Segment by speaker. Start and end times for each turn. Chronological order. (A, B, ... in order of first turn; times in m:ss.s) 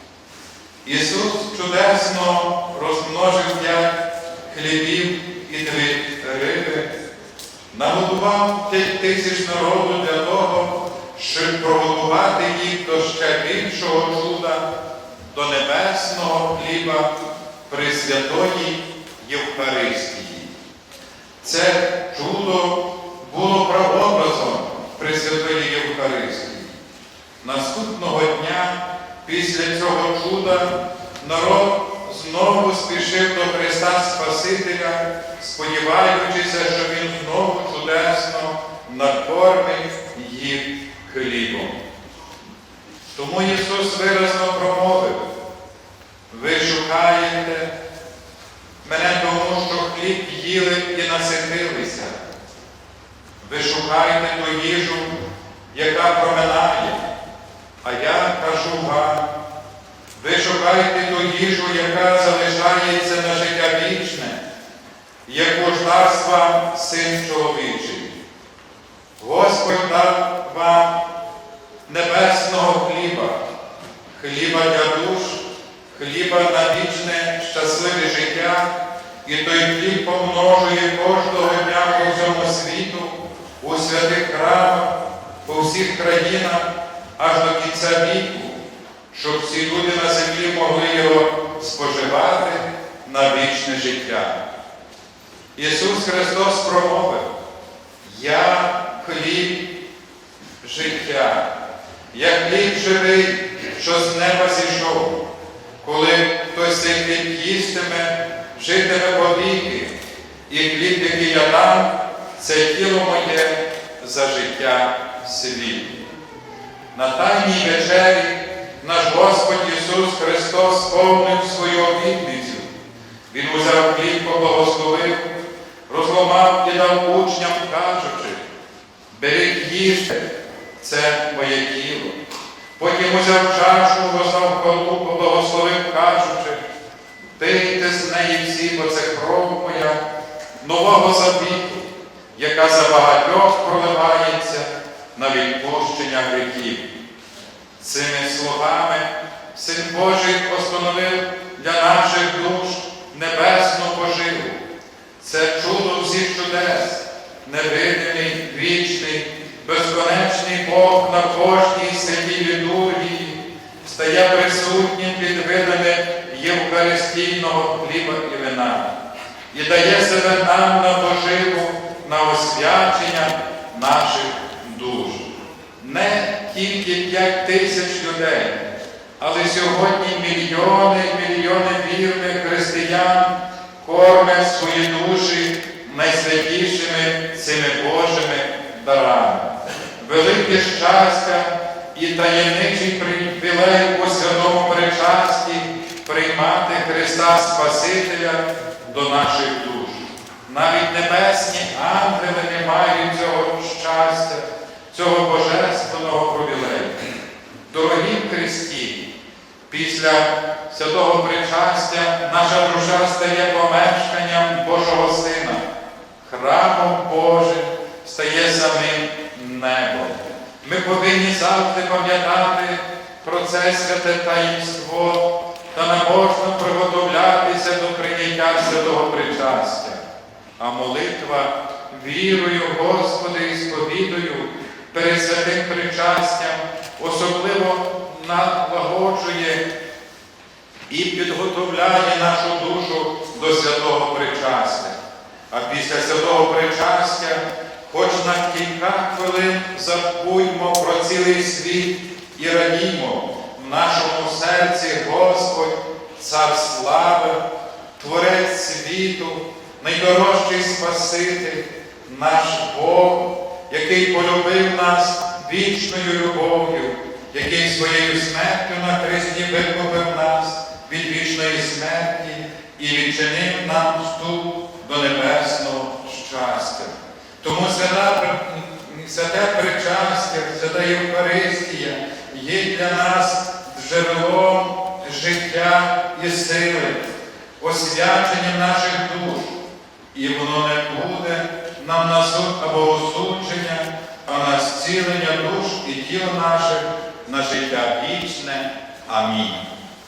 0:00.8-0:03.9 A
0:04.5-0:06.9 A
0:07.7-0:14.7 A
0:15.3-0:17.1 A
0:17.7-0:20.5 A
0:21.4-0:26.8 A
0:27.4-0:41.7 A
0:43.1-0:45.2 A
0:46.3-0:47.7 A
0:48.8-0:52.2 A
0:53.4-0:55.2 A
0:55.7-0:57.0 A
0:57.8-0:59.3 A
1:00.2-1:04.4 A
1:05.2-1:08.1 A
1:09.2-1:10.9 A
1:11.9-1:13.4 A
1:14.1-1:18.7 A
1:19.2-1:24.9 A
1:25.4-1:28.6 A
1:29.1-1:34.4 A
1:35.6-1:37.3 A
1:38.0-1:39.7 A
1:40.6-1:41.5 A
1:42.1-1:45.2 A
1:45.8-1:49.9 A
1:50.5-1:56.0 A
1:56.9-2:02.7 A
2:03.3-2:05.3 A
2:05.9-2:08.4 A
2:09.1-2:12.2 A
2:12.8-2:16.6 A
2:17.4-2:20.0 A
2:20.6-2:26.9 A
2:27.8-2:34.6 A
2:35.2-2:48.9 A
2:49.5-2:55.3 A
2:55.8-3:27.0 A
3:27.7-3:29.1 A
3:29.7-3:35.6 A
3:36.2-3:50.0 A
3:50.6-3:59.6 A
4:00.9-4:05.0 A
4:05.5-4:17.4 A
4:18.0-4:47.0 A
4:47.6-4:49.6 A
4:50.1-4:59.6 A